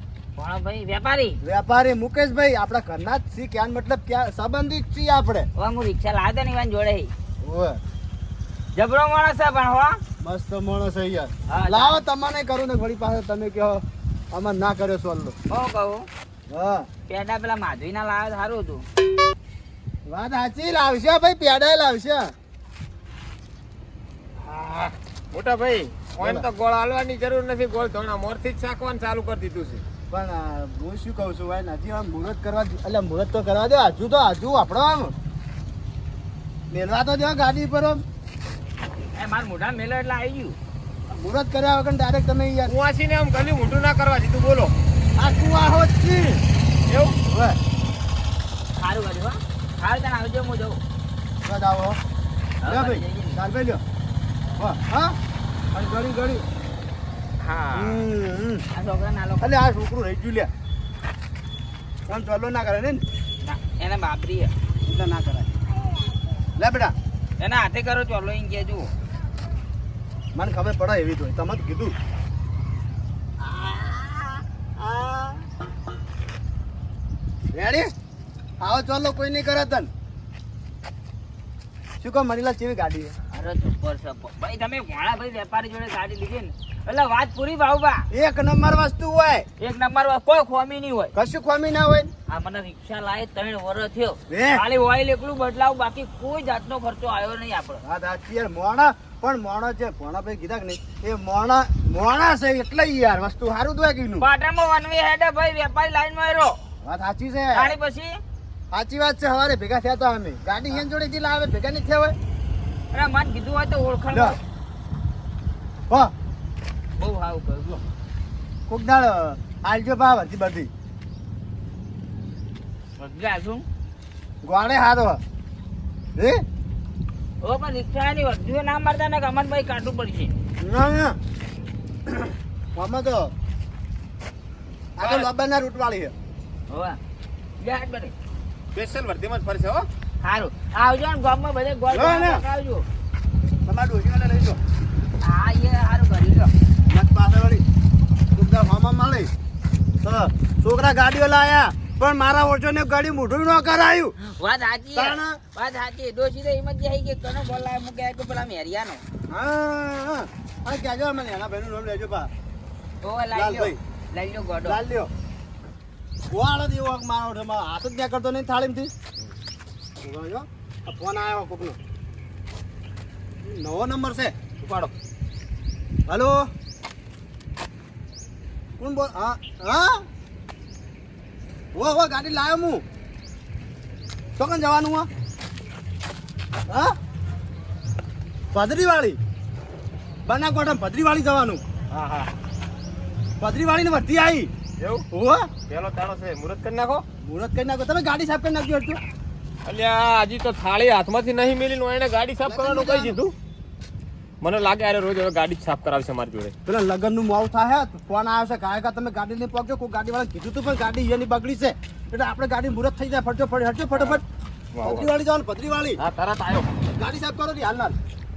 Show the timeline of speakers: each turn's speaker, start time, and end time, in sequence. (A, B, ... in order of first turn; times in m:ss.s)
0:00.4-0:01.4 A
0:01.4-0:05.5 B
0:05.6-0:07.1 A
0:07.4-0:07.8 B
0:08.7-0:10.0 A
0:10.2-0:13.8 B
0:11.5-0:12.0 A
0:14.3-0:15.3 B
0:15.5-0:16.1 A
0:16.5-0:16.9 B
0:17.1-0:18.8 A
0:20.0-0:22.3 B
0:24.5-0:29.8 C
0:26.2-0:26.4 B
0:30.1-0:35.1 B
0:36.7-0:38.0 B
0:39.1-0:40.6 A
0:41.1-0:42.7 B
0:42.7-0:44.7 C
0:45.2-0:46.4 B
0:46.9-0:47.2 C
0:47.2-0:47.6 B
0:48.8-0:50.8 A
0:51.4-0:52.0 B
0:52.6-0:53.4 A
0:52.7-0:53.8 B
0:54.6-0:55.2 B
0:55.7-0:56.4 B
0:57.4-0:58.0 A
0:57.7-0:58.6 B
0:58.7-0:59.5 A
0:59.4-1:00.5 B
1:02.1-1:03.0 B
1:03.4-1:04.5 A
1:04.8-1:05.5 B
1:06.6-1:06.9 B
1:07.4-1:08.9 A
1:10.3-1:11.9 B
1:13.4-1:15.4 B
1:17.5-1:17.9 B
1:18.6-1:19.9 B
1:22.0-1:23.2 B
1:23.3-1:28.1 A
1:28.1-1:29.5 B
1:29.6-1:31.1 A
1:31.1-1:32.1 B
1:32.3-1:37.8 A
1:34.3-1:34.6 B
1:37.8-1:44.2 B
1:44.2-1:46.6 A
1:46.8-1:47.8 B
1:47.5-1:48.2 A
1:48.7-1:52.2 B
1:52.9-1:54.4 A
1:54.1-1:54.4 B
1:57.0-1:57.8 A
1:58.7-2:00.7 B
2:03.0-2:03.6 A
2:04.4-2:05.2 B
2:07.4-2:10.3 A
2:10.6-2:11.2 B
2:12.1-2:13.3 B
2:15.0-2:16.1 B
2:15.0-2:15.3 C
2:16.7-2:17.0 A
2:17.6-2:18.1 A
2:18.7-2:19.8 C
2:20.2-2:22.8 A
2:21.9-2:22.4 B
2:23.6-2:24.6 B
2:25.2-2:26.5 A
2:26.9-2:27.6 B
2:28.3-2:29.3 B
2:30.0-2:34.1 B
2:34.2-2:39.0 A
2:34.9-2:35.4 B
2:39.3-2:42.3 B
2:43.0-2:44.8 A
2:43.3-2:43.8 B
2:44.6-2:45.1 B
2:46.3-2:48.9 B
2:50.0-2:51.8 B
2:53.4-2:54.6 B
2:54.6-2:54.9 C
2:56.1-2:56.4 B
2:58.8-3:00.0 B
3:01.7-3:02.8 B
3:04.4-3:05.1 B
3:06.7-3:06.9 B
3:08.5-3:09.2 B
3:10.2-3:11.6 B
3:11.9-3:12.3 C
3:13.4-3:14.5 B
3:14.8-3:15.0 C
3:15.1-3:15.5 B
3:15.7-3:17.0 C
3:17.2-3:19.0 B
3:19.6-3:23.3 C
3:22.4-3:23.2 B
3:24.4-3:26.5 C
3:26.6-3:34.2 B
3:33.9-3:34.2 C
3:34.7-3:35.1 C
3:34.8-3:36.0 B
3:36.0-3:36.7 C
3:37.0-3:38.0 B